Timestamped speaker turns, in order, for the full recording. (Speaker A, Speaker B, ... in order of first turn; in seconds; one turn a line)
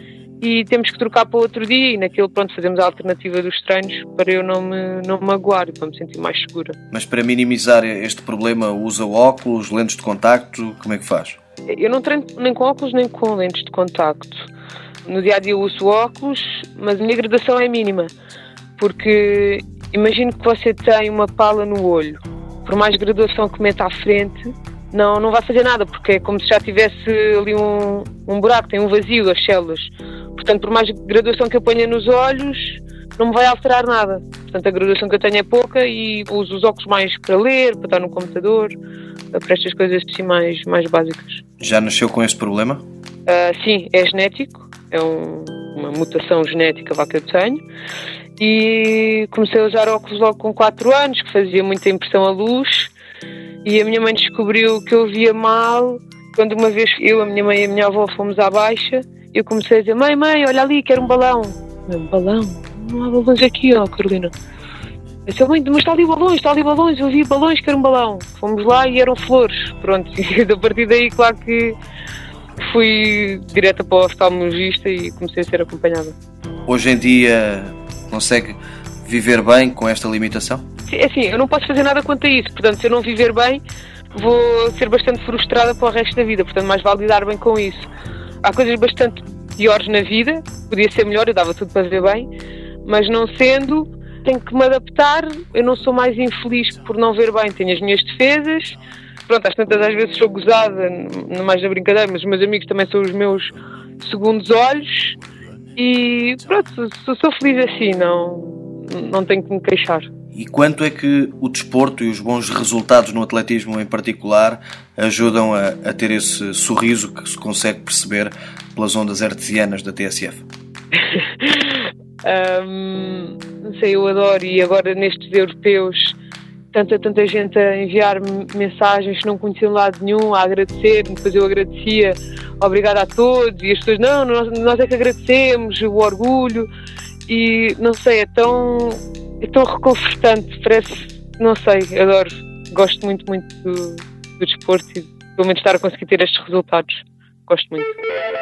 Speaker A: 0.4-6.8
Speaker B: 6.9-11.4
Speaker A: 11.7-14.5
Speaker A: 15.1-18.1
Speaker A: 18.8-38.7
Speaker A: 39.3-41.4
Speaker B: 41.6-42.8
Speaker A: 43.3-47.6
Speaker A: 48.4-52.9
Speaker A: 53.6-64.3
Speaker A: 65.3-71.8
Speaker A: 72.6-76.2
Speaker B: 76.7-80.7
Speaker A: 80.9-83.6
Speaker A: 84.1-87.9
Speaker A: 88.4-92.3
Speaker A: 92.8-105.2
Speaker A: 105.8-110.1
Speaker B: 110.3-120.5
Speaker A: 121.0-126.2
Speaker A: 126.7-136.7
Speaker A: 137.3-148.0